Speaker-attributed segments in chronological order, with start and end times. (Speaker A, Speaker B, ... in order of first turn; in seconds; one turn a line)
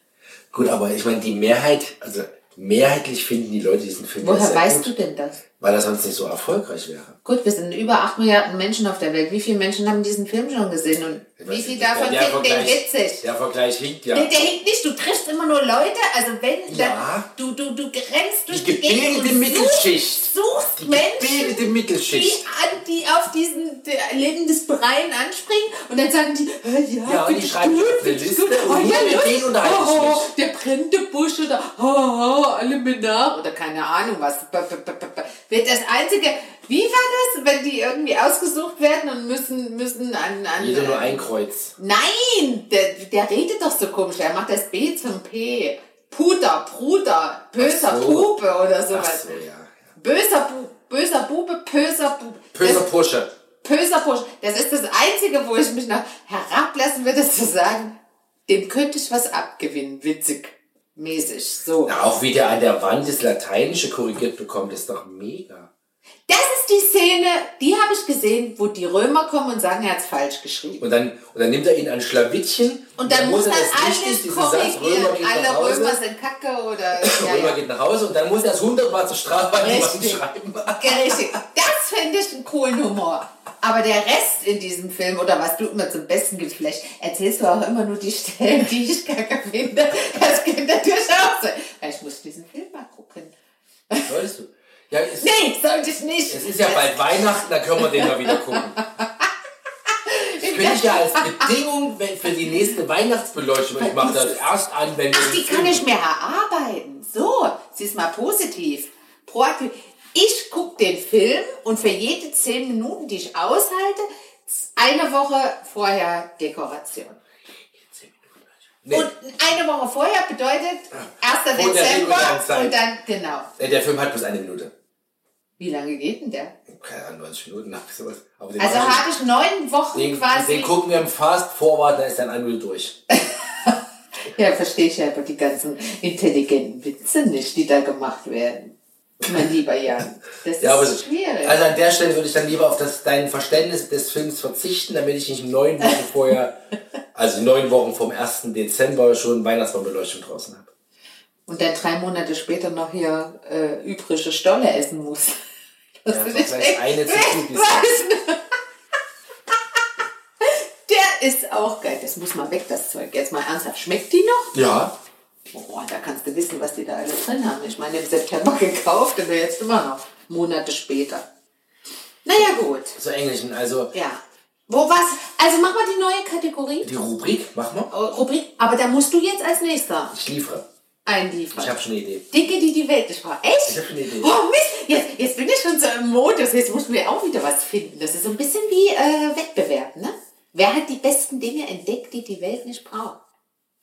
Speaker A: 0.5-4.9
Speaker B: 4.2-5.4
Speaker A: 5.6-7.2
Speaker B: 7.2-13.2
Speaker A: 11.4-14.3
Speaker B: 14.1-49.3
Speaker A: 16.7-17.3
Speaker A: 18.5-22.4
Speaker A: 27.0-30.3
Speaker A: 40.6-41.7
Speaker A: 47.6-48.3
Speaker A: 48.9-49.9
Speaker B: 49.9-52.9
Speaker A: 52.5-53.3
Speaker B: 53.6-58.0
Speaker B: 58.5-62.0
Speaker A: 61.8-65.7
Speaker B: 66.3-70.8
Speaker A: 70.8-76.0
Speaker B: 73.0-77.6
Speaker A: 77.0-81.3
Speaker B: 79.6-93.3
Speaker A: 94.1-95.3
Speaker B: 95.2-97.2
Speaker A: 96.3-98.8
Speaker B: 97.8-99.3
Speaker B: 100.0-101.5
Speaker A: 100.4-105.9
Speaker B: 103.8-104.3
Speaker B: 105.1-117.2
Speaker A: 117.7-119.1
Speaker B: 118.9-123.5
Speaker A: 120.9-122.7
Speaker A: 123.6-124.7
Speaker B: 125.6-126.5
Speaker A: 126.7-129.0
Speaker B: 128.6-130.7
Speaker A: 129.9-133.0
Speaker B: 133.1-141.6
Speaker A: 140.6-146.6
Speaker A: 147.1-150.7
Speaker B: 151.5-155.4
Speaker B: 156.0-158.4
Speaker A: 156.1-157.9
Speaker B: 160.4-164.6
Speaker A: 164.5-164.9
Speaker B: 165.5-171.3
Speaker B: 172.2-173.0
Speaker A: 172.9-173.9
Speaker B: 173.9-176.9
Speaker A: 176.8-177.9
Speaker B: 177.9-180.1
Speaker A: 180.1-180.6
Speaker B: 181.1-181.8
Speaker A: 181.5-182.2
Speaker B: 182.3-193.2
Speaker A: 183.7-184.3